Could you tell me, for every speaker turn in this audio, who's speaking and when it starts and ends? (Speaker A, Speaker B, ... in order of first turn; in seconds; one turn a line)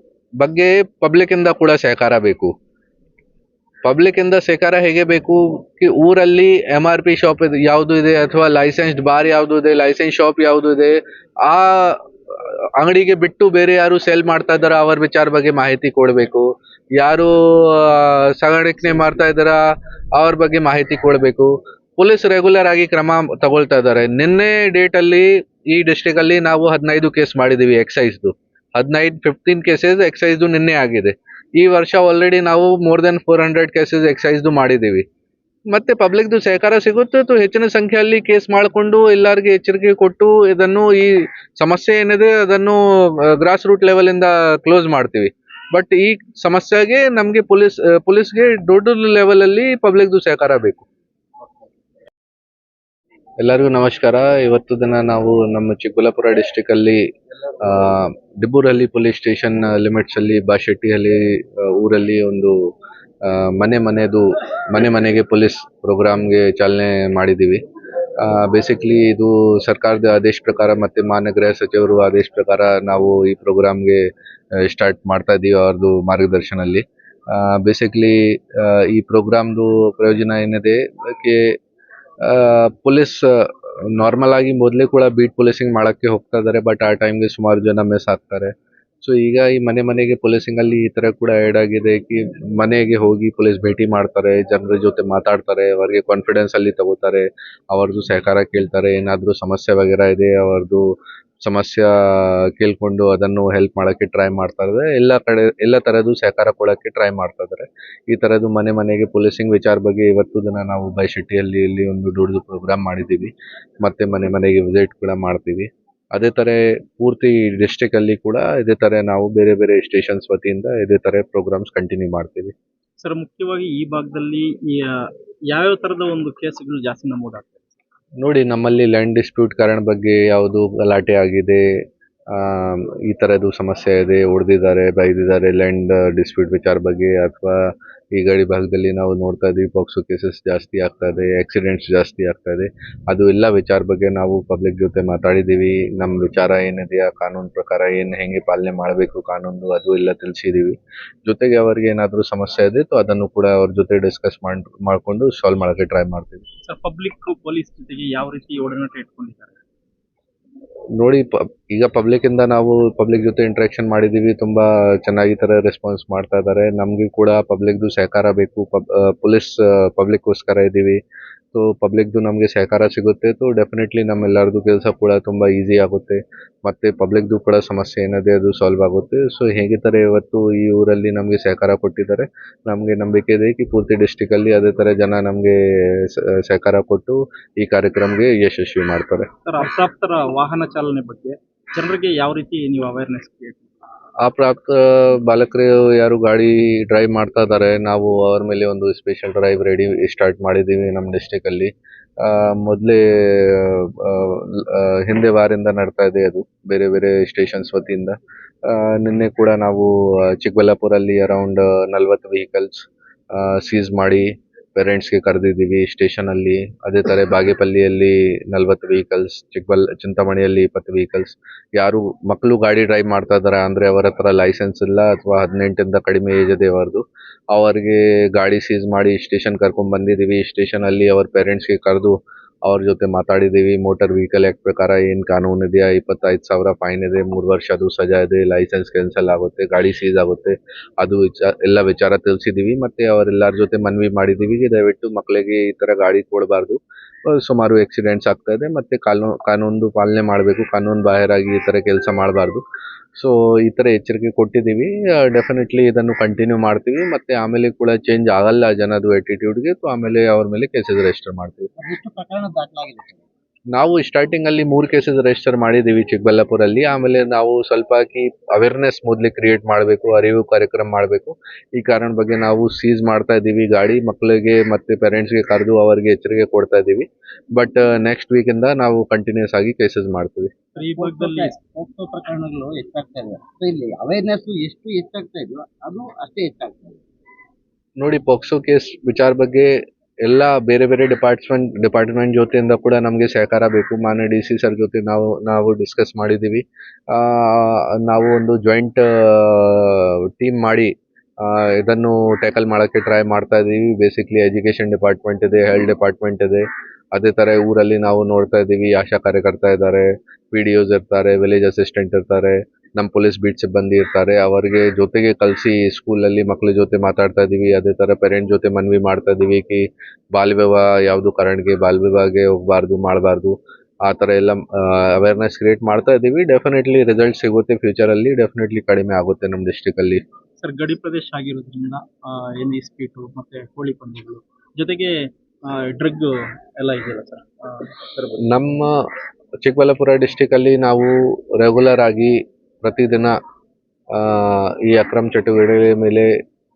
Speaker A: 0.4-2.5
Speaker A: 3.8-19.6
Speaker A: 20.2-35.1
Speaker A: 35.7-50.9
Speaker A: 53.4-57.0
Speaker A: 57.6-62.6
Speaker A: 63.2-67.6
Speaker A: 68.2-74.1
Speaker A: 74.6-81.6
Speaker A: 82.2-122.5
Speaker B: 123.0-127.8
Speaker A: 128.2-131.7
Speaker A: 132.3-156.4
Speaker B: 156.7-159.6
Speaker A: 161.0-171.0
Speaker A: 171.5-189.3
Speaker B: 189.5-193.7
Speaker A: 194.2-252.6
Speaker A: 253.2-261.7
Speaker C: 261.8-263.3
Speaker A: 263.7-280.5
Speaker B: 280.8-281.6
Speaker C: 280.8-287.0
Speaker A: 288.0-330.2
Speaker B: 330.6-338.4
Speaker A: 338.4-339.0
Speaker A: 339.6-343.3
Speaker A: 344.1-346.3